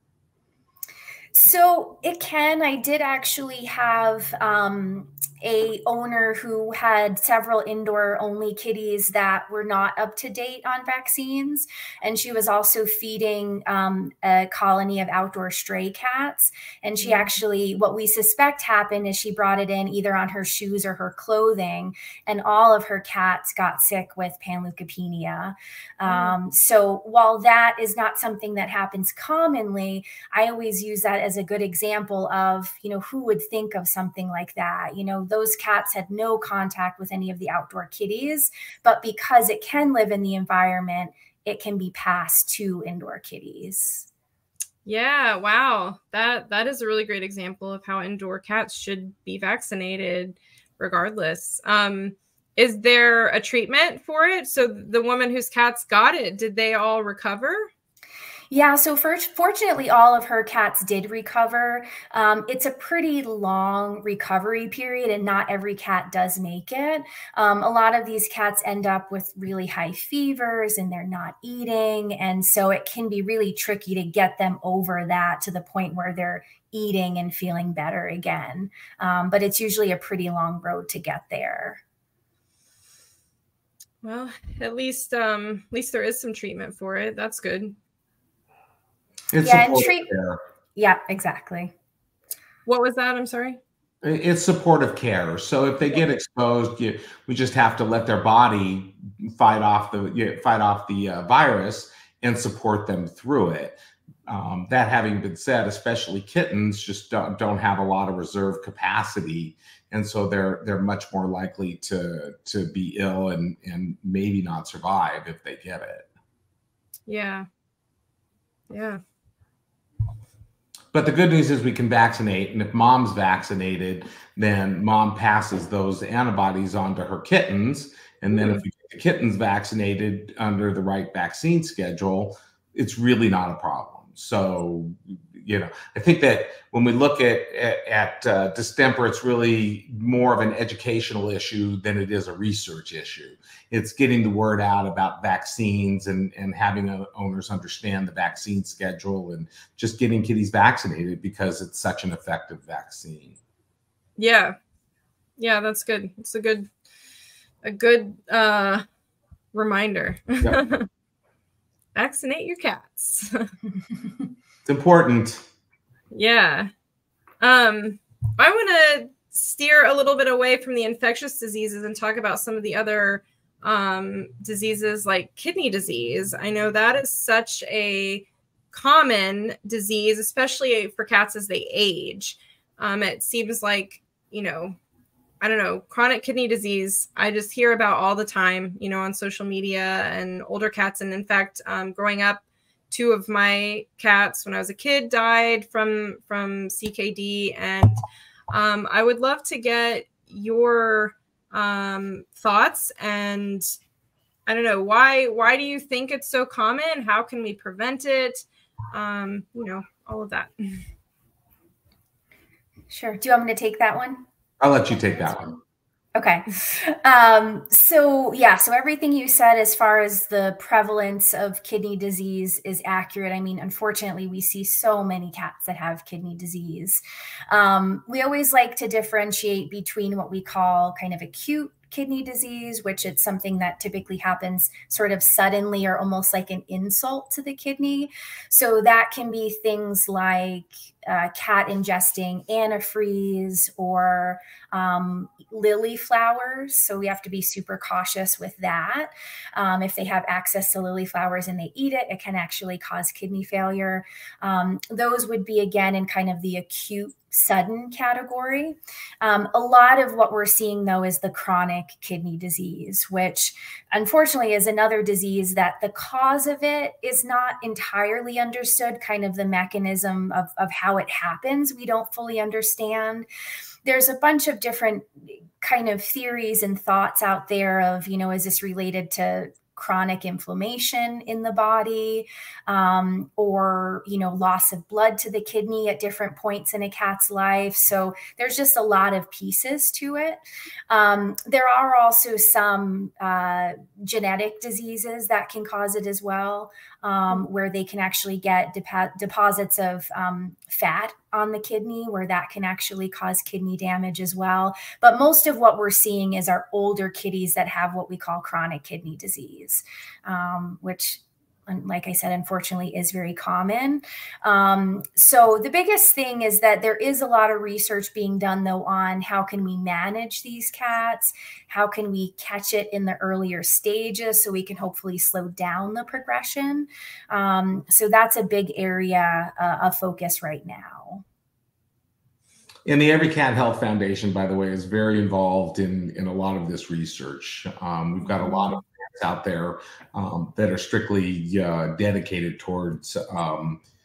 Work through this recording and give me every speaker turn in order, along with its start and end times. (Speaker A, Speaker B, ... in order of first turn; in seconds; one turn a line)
Speaker A: 1.3-44.1
Speaker B: 17.0-17.3
Speaker B: 26.1-26.4
Speaker B: 44.8-57.7
Speaker A: 58.5-81.8
Speaker B: 84.0-87.7
Speaker C: 89.3-90.4
Speaker A: 89.4-90.1
Speaker A: 90.8-91.7
Speaker B: 92.7-93.6
Speaker C: 94.0-116.1
Speaker B: 117.1-117.5
Speaker B: 118.7-119.0
Speaker C: 120.9-153.4
Speaker B: 128.3-128.6
Speaker B: 154.2-154.6
Speaker B: 155.4-156.7
Speaker B: 157.6-158.8
Speaker B: 159.5-160.9
Speaker B: 161.9-163.5
Speaker C: 164.7-165.4
Speaker B: 166.1-166.7
Speaker B: 167.4-184.8
Speaker B: 185.4-198.0
Speaker B: 198.5-203.7
Speaker B: 204.4-210.8
Speaker A: 212.9-214.2
Speaker C: 214.6-215.6
Speaker A: 216.1-273.3
Speaker A: 273.8-331.2
Speaker C: 332.9-343.8
Speaker A: 338.4-338.7